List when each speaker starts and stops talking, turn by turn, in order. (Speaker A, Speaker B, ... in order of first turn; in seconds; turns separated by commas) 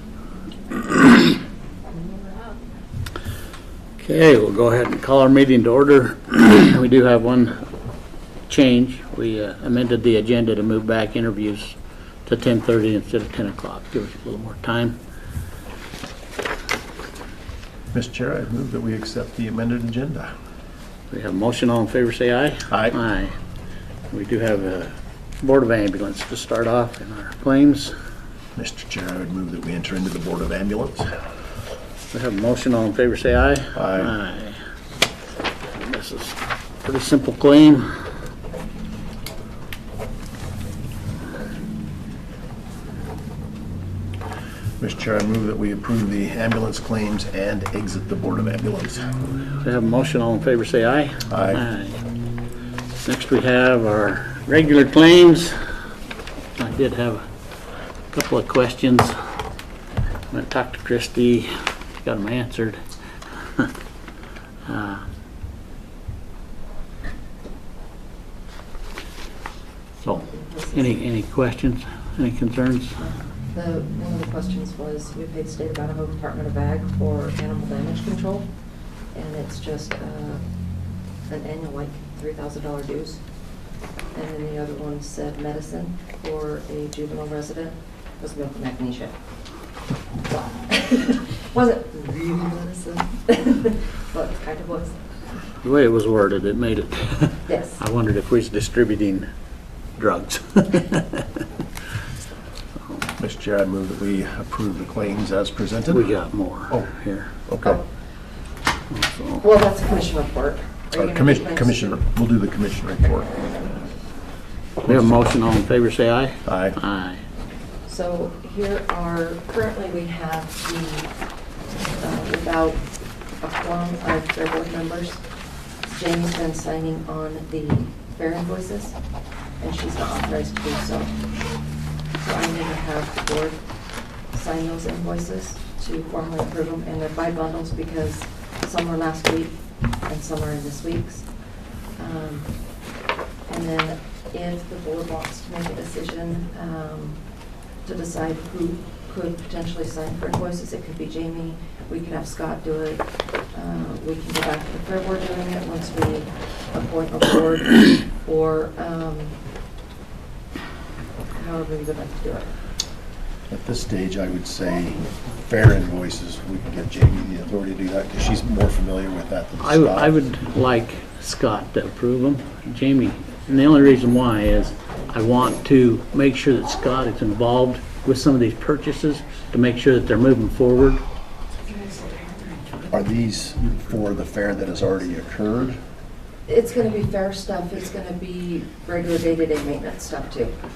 Speaker A: 0.7-1.3, Speaker A: 4.0-7.6, Speaker A: 8.5-15.0, Speaker B: 17.9-20.3, Speaker A: 21.1-23.4, Speaker B: 22.7-23.0, Speaker A: 24.1-27.9, Speaker B: 28.6-31.1, Speaker A: 32.1-34.6, Speaker B: 33.7-34.1, Speaker A: 35.7-38.1, Speaker B: 44.8-49.1, Speaker A: 49.6-52.0, Speaker B: 51.3-51.6, Speaker A: 53.0-55.6, Speaker A: 56.6-57.3, Speaker A: 58.1-59.2, Speaker A: 60.3-62.8, Speaker A: 63.4-63.7, Speaker A: 64.6-65.1, Speaker A: 70.0-73.0, Speaker C: 70.3-71.0, Speaker C: 73.0-78.5, Speaker C: 79.1-80.4, Speaker C: 81.3-83.2, Speaker C: 84.1-89.1, Speaker C: 90.2-95.0, Speaker A: 95.6-99.3, Speaker C: 97.5-97.8, Speaker A: 100.0-101.4, Speaker B: 103.2-106.1, Speaker A: 105.9-107.3, Speaker B: 107.5-107.8, Speaker A: 108.9-109.4, Speaker C: 109.4-112.0, Speaker B: 111.0-113.3, Speaker A: 114.8-117.2, Speaker B: 114.8-115.1, Speaker B: 116.5-116.8, Speaker C: 117.8-121.1, Speaker C: 122.0-125.2, Speaker C: 125.8-129.0, Speaker C: 129.6-131.3, Speaker C: 132.2-133.7, Speaker C: 134.3-141.3, Speaker C: 141.9-142.8, Speaker C: 143.5-147.3, Speaker C: 147.8-159.4, Speaker C: 161.3-162.5, Speaker B: 163.5-170.2, Speaker A: 169.6-181.0, Speaker B: 182.9-185.8, Speaker C: 186.5-190.5